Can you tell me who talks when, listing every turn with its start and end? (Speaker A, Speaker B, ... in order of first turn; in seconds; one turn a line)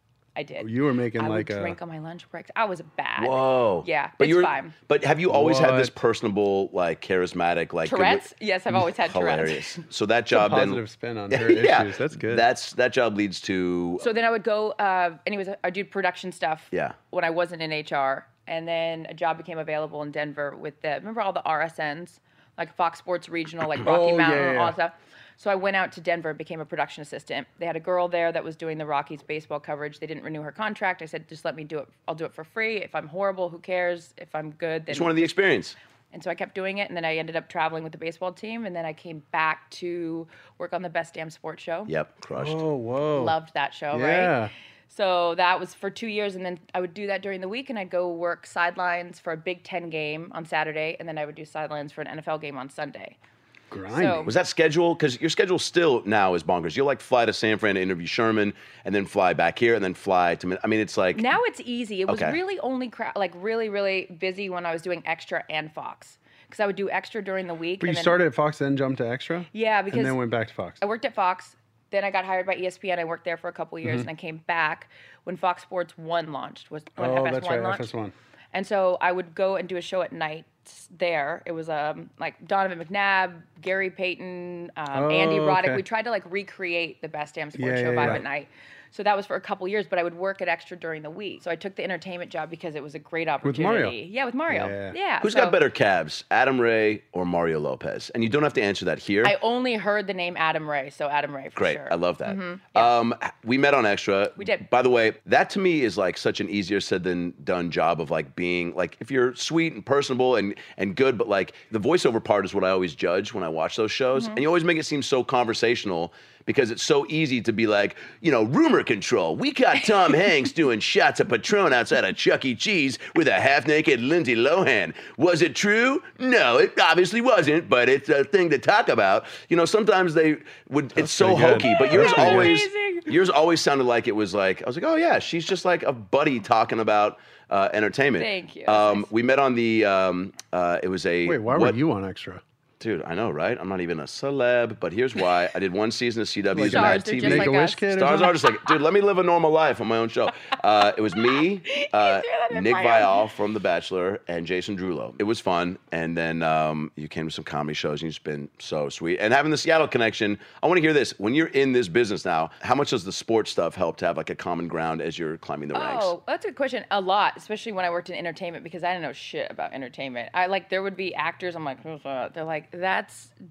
Speaker A: 0.3-4.7
Speaker B: 0.6-1.8
Speaker C: 3.2-14.1
Speaker B: 5.3-5.9
Speaker A: 7.8-9.8
Speaker B: 10.3-12.5
Speaker A: 14.0-35.3
Speaker B: 23.8-24.8
Speaker C: 34.9-35.8
Speaker A: 36.1-41.9
Speaker C: 41.9-42.6
Speaker B: 42.3-43.4
Speaker A: 43.1-44.4
Speaker B: 43.9-44.5
Speaker A: 44.9-53.2
Speaker B: 53.7-54.3
Speaker A: 53.9-54.3
Speaker C: 54.2-61.3
Speaker A: 61.1-68.2
Speaker C: 62.1-62.4
Speaker B: 67.8-70.8
Speaker A: 69.5-70.2
Speaker A: 70.8-77.9
Speaker B: 77.0-78.1
Speaker A: 78.5-95.6
Speaker B: 84.9-85.8
Speaker B: 87.5-88.2
Speaker B: 93.4-94.0
Speaker B: 94.5-95.0
Speaker C: 95.2-99.3
Speaker A: 99.2-103.0
Speaker C: 101.5-141.8
Speaker A: 104.4-104.6
Speaker B: 130.9-132.6
Speaker A: 131.6-133.1
Speaker A: 138.2-139.1
Speaker B: 141.2-142.4
Speaker C: 142.8-166.1
Speaker B: 146.5-148.4
Speaker A: 146.6-147.8
Speaker A: 151.3-153.2
Speaker A: 165.7-173.3